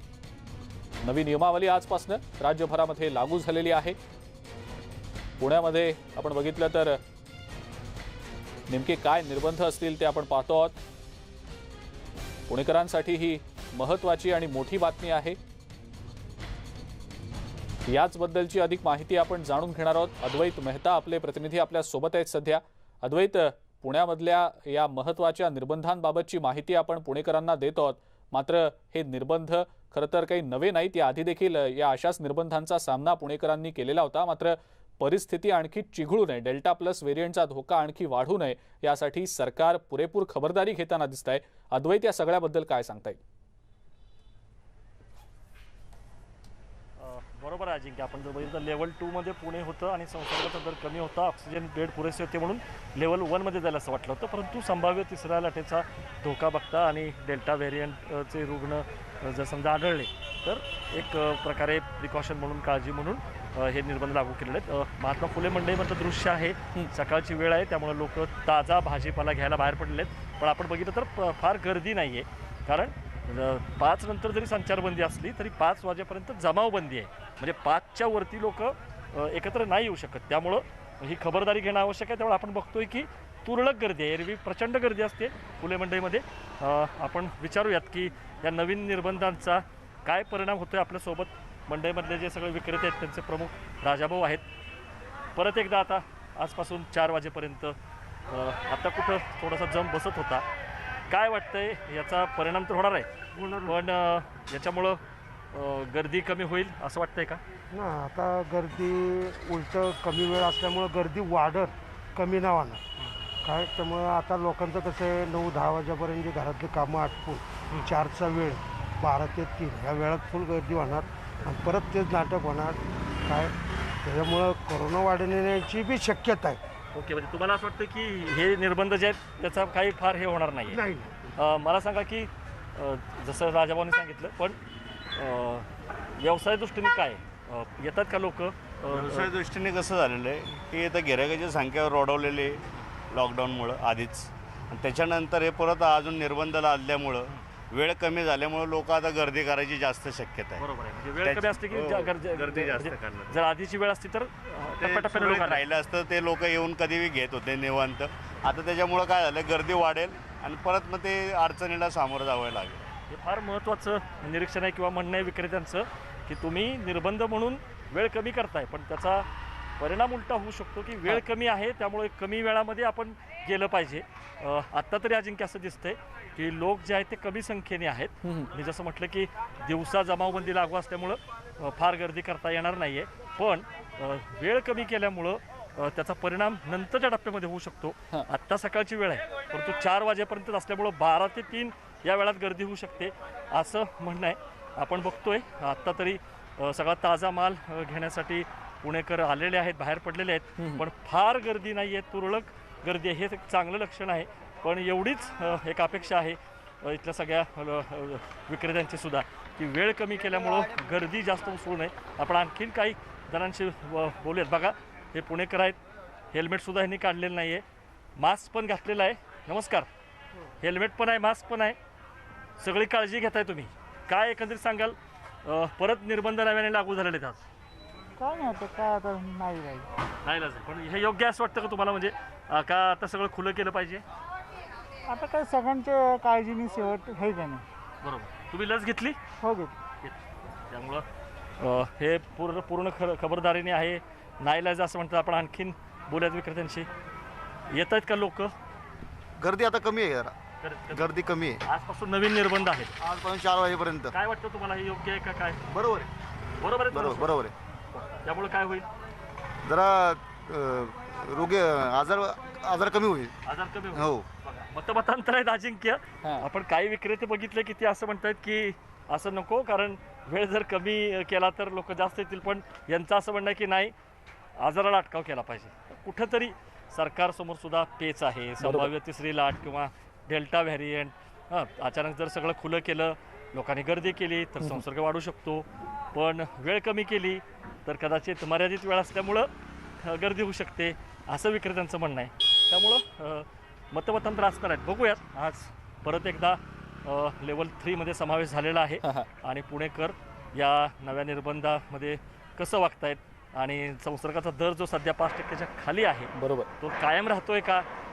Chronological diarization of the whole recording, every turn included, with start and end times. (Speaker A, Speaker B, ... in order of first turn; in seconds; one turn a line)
Speaker A: 1.0-4.0
Speaker A: 5.4-7.0
Speaker A: 8.7-10.8
Speaker A: 12.5-15.4
Speaker A: 17.9-43.2
Speaker B: 47.0-94.4
Speaker B: 95.3-97.8
Speaker B: 98.3-100.4
Speaker B: 101.1-103.1
Speaker C: 103.3-103.8
Speaker B: 103.7-105.0
Speaker B: 105.5-107.4
Speaker C: 107.7-112.8
Speaker C: 113.4-126.6
Speaker B: 126.9-130.8
Speaker C: 130.7-131.1
Speaker B: 131.3-134.6
Speaker B: 135.1-135.7
Speaker B: 136.2-139.4
Speaker D: 138.9-150.6
Speaker B: 150.6-155.6
Speaker D: 151.2-153.4
Speaker D: 154.8-162.8
Speaker B: 163.1-169.2
Speaker B: 169.8-215.8
Speaker A: 178.2-178.5
Speaker A: 200.6-200.8
Speaker B: 216.3-217.6
Speaker B: 218.2-219.9
Speaker B: 220.6-221.8
Speaker B: 222.6-227.4
Speaker E: 228.2-229.9
Speaker B: 230.2-234.0
Speaker E: 235.1-237.6
Speaker B: 238.0-239.2
Speaker E: 239.4-239.8
Speaker B: 240.7-241.1
Speaker B: 241.6-246.9
Speaker B: 247.7-248.5
Speaker F: 249.4-250.3
Speaker B: 250.6-252.9
Speaker D: 250.9-251.6
Speaker D: 253.0-253.9
Speaker B: 254.1-255.6
Speaker F: 255.7-256.0
Speaker B: 256.6-258.9
Speaker D: 256.9-257.5
Speaker F: 259.6-261.1
Speaker D: 261.1-262.0
Speaker F: 261.7-262.5
Speaker D: 262.6-263.1
Speaker B: 263.4-273.9
Speaker B: 274.6-289.5
Speaker A: 278.6-278.9
Speaker B: 290.0-307.9
Speaker A: 306.3-306.7